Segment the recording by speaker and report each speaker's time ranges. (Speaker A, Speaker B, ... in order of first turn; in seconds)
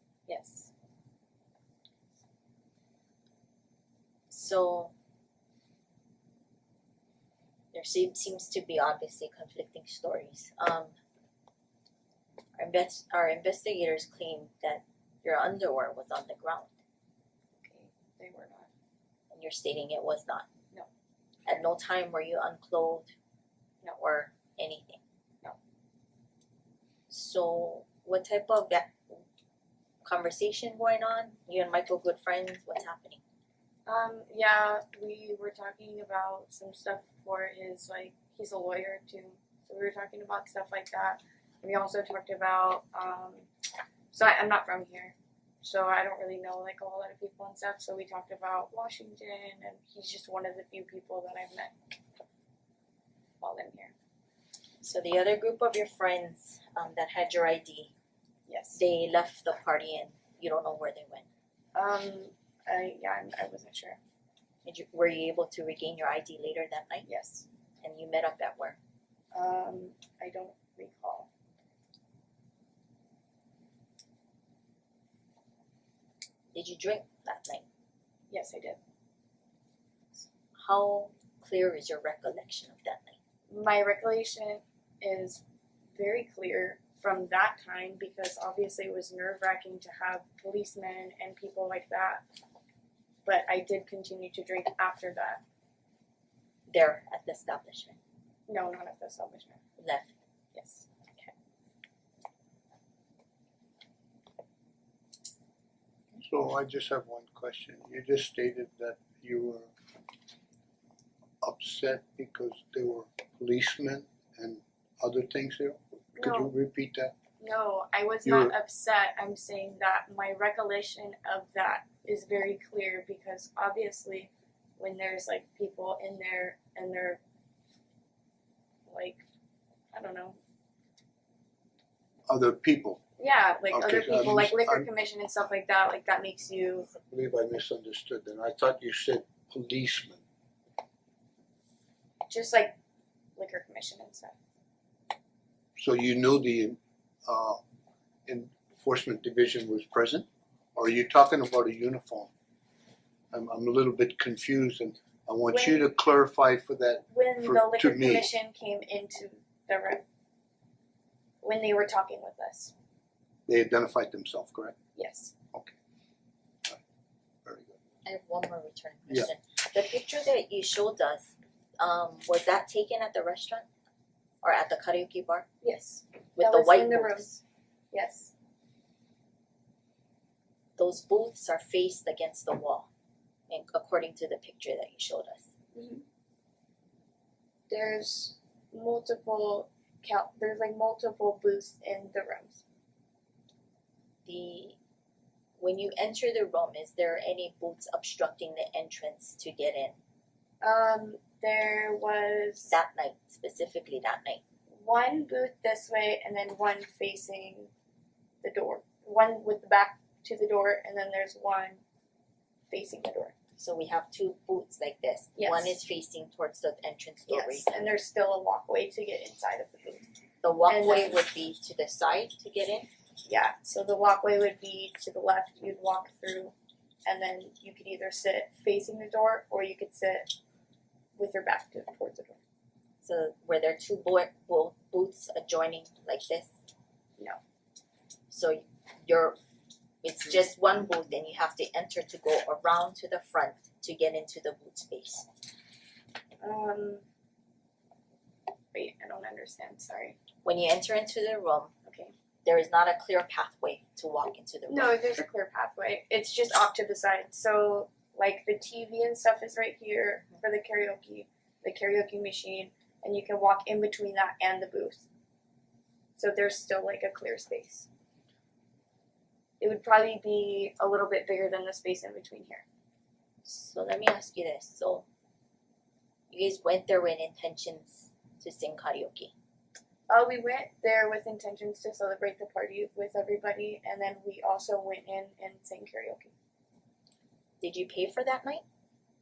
Speaker A: 0.3-0.7, 17.6-18.7, 33.9-43.5, 44.1-51.7, 53.4-53.9, 58.5-58.8, 61.7-64.0, 67.0-67.4, 69.3-71.3, 78.3-78.8, 83.5-85.4, 85.9-92.2, 93.2-95.4, 98.5-99.6, 100.5-101.3, 116.2-116.5, 117.4-127.2, 128.9-129.2, 129.9-130.4, 133.2-136.9, 142.3-142.7, 143.4-144.3, 155.5-155.9, 157.1-160.0, 161.4-162.7, 164.9-165.3, 175.6-177.4, 177.9-178.3, 185.7-186.0, 187.7-192.6, 200.6-202.7, 204.7-207.7, 208.4-211.8, 212.7-213.3, 215.3-215.8, 217.3-220.1, 220.7-221.2, 223.2-226.5, 227.0-230.3, 231.2-232.4, 246.4-247.0, 248.7-250.2, 251.8-252.1, 254.7-265.0, 266.2-267.9, 269.6-272.6, 280.1-286.3
Speaker B: 4.3-4.9, 7.7-10.9, 12.6-16.7, 19.3-20.5, 21.4-23.1, 24.0-25.0, 27.1-29.2, 30.0-33.2, 54.8-57.9, 58.7-61.2, 64.6-67.1, 67.8-68.8, 76.5-77.6, 80.5-83.2, 96.7-98.0, 99.8-100.1, 168.0-173.7, 174.4-175.4, 176.4-177.3, 180.8-182.9, 183.5-185.4, 194.2-194.8, 195.6-199.9, 202.7-204.4, 213.6-217.8, 220.4-222.9, 233.0-236.5, 238.3-239.4, 240.0-245.3, 250.4-251.7, 252.4-255.0, 273.4-275.1, 276.3-279.3, 287.6-288.6
Speaker C: 106.2-109.7, 111.4-117.1, 118.2-118.5, 132.3-133.0, 133.7-134.9, 136.9-140.2, 145.8-147.6, 148.3-152.3, 153.3-158.3, 163.5-164.7, 167.4-167.8